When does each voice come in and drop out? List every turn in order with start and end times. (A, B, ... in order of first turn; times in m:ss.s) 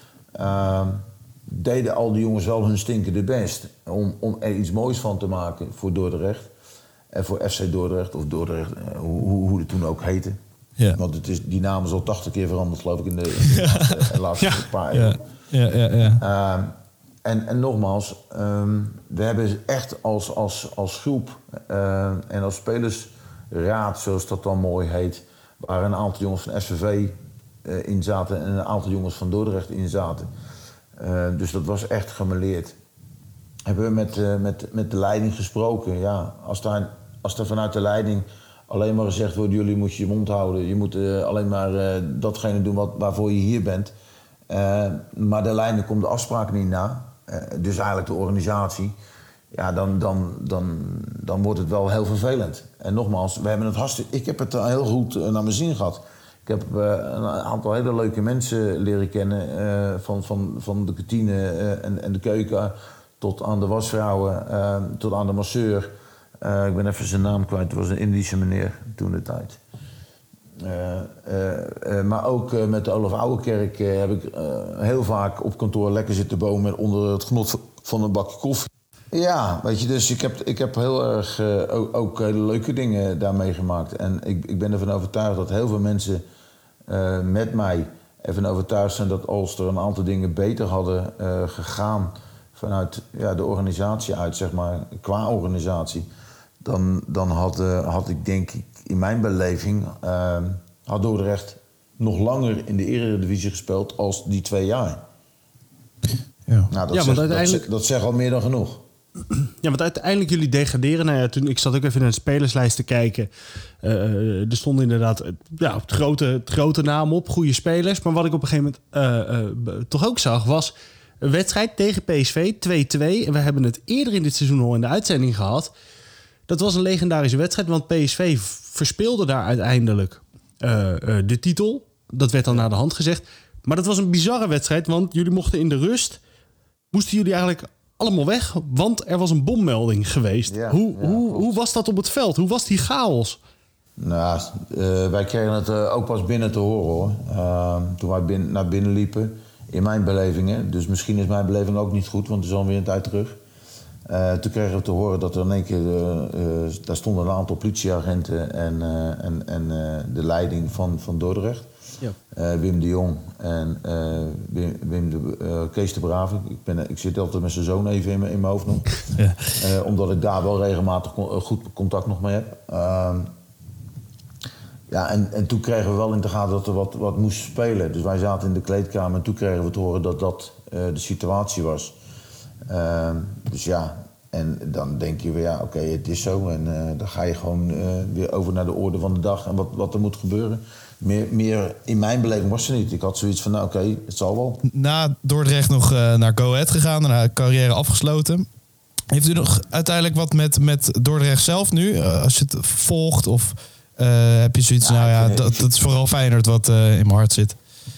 0:00.4-0:06.5 A
0:07.1-0:10.4 A
0:10.9-0:15.2 A
0:13.5-0:14.0 B
0:14.4-0:14.7 C
0:14.9-0:16.2 B
0:16.2-0:30.3 A
0:31.0-0:32.8 A
0:33.6-0:43.9 A
0:44.5-0:48.9 A
0:49.5-1:05.9 A
1:06.4-1:09.6 A
1:10.6-1:26.2 A
1:26.9-1:36.1 A
1:36.6-1:45.0 A
1:46.7-1:48.8 A
1:46.9-1:47.6 C
1:49.3-1:53.3 C
1:53.8-2:05.7 C
2:06.5-2:16.2 C
2:16.9-2:23.4 C
2:20.5-2:21.6 A
2:24.0-2:33.4 A
2:34.1-2:41.7 A
2:42.3-2:48.9 A
2:49.1-2:49.5 B
2:49.6-2:53.3 A
2:54.9-3:02.0 A
3:02.7-3:14.6 A
3:14.6-3:18.4 B
3:19.1-3:27.6 B
3:24.8-3:25.7 A